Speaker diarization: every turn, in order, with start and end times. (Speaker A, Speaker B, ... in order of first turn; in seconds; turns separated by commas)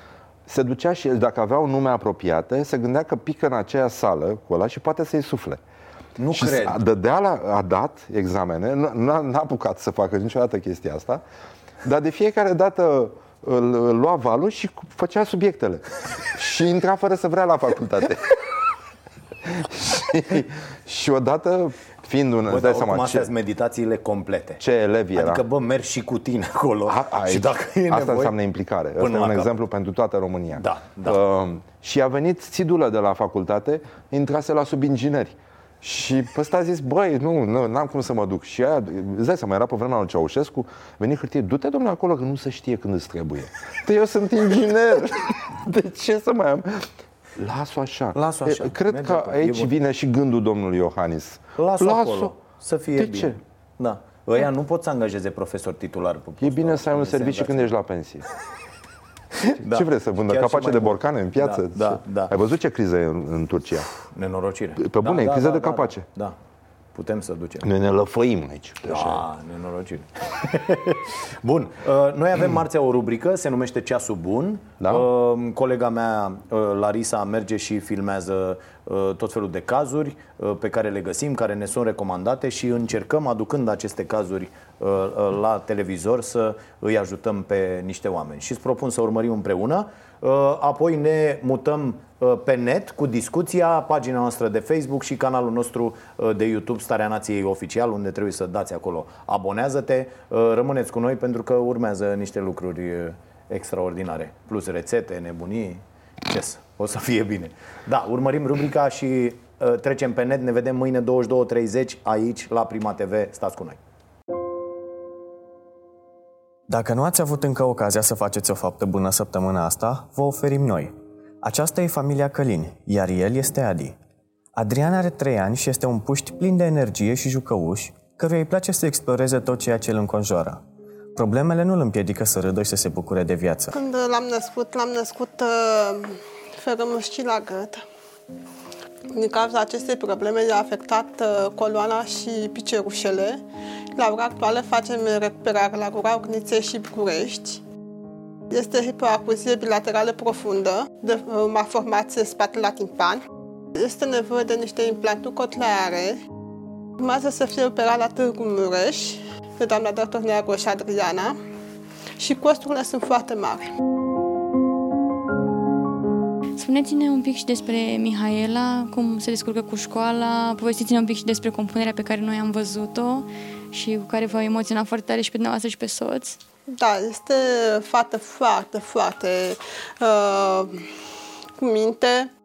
Speaker A: 0.5-5.6, Speaker B: 6.2-6.8, Speaker A: 6.3-11.2, Speaker A: 11.8-18.4, Speaker A: 19.5-23.3, Speaker B: 22.5-24.6, Speaker A: 24.6-25.4, Speaker B: 25.1-28.3, Speaker A: 26.9-52.3, Speaker B: 29.0-29.5, Speaker B: 30.5-31.2, Speaker B: 48.1-49.7, Speaker B: 51.6-57.7, Speaker A: 53.0-53.4, Speaker A: 56.4-58.2, Speaker B: 59.6-62.3, Speaker A: 59.6-63.9, Speaker B: 64.0-66.3, Speaker A: 64.8-66.0, Speaker B: 66.9-67.7, Speaker A: 67.6-69.2, Speaker B: 68.9-113.8, Speaker A: 74.8-75.1, Speaker C: 116.7-123.9, Speaker C: 124.5-130.6, Speaker C: 131.2-133.7, Speaker D: 133.7-137.8, Speaker D: 139.1-143.4, Speaker D: 143.9-147.6, Speaker D: 148.5-153.2, Speaker D: 153.7-156.2, Speaker D: 157.0-161.4, Speaker D: 162.2-163.7, Speaker E: 166.6-176.4, Speaker D: 176.8-180.8, Speaker D: 181.6-182.3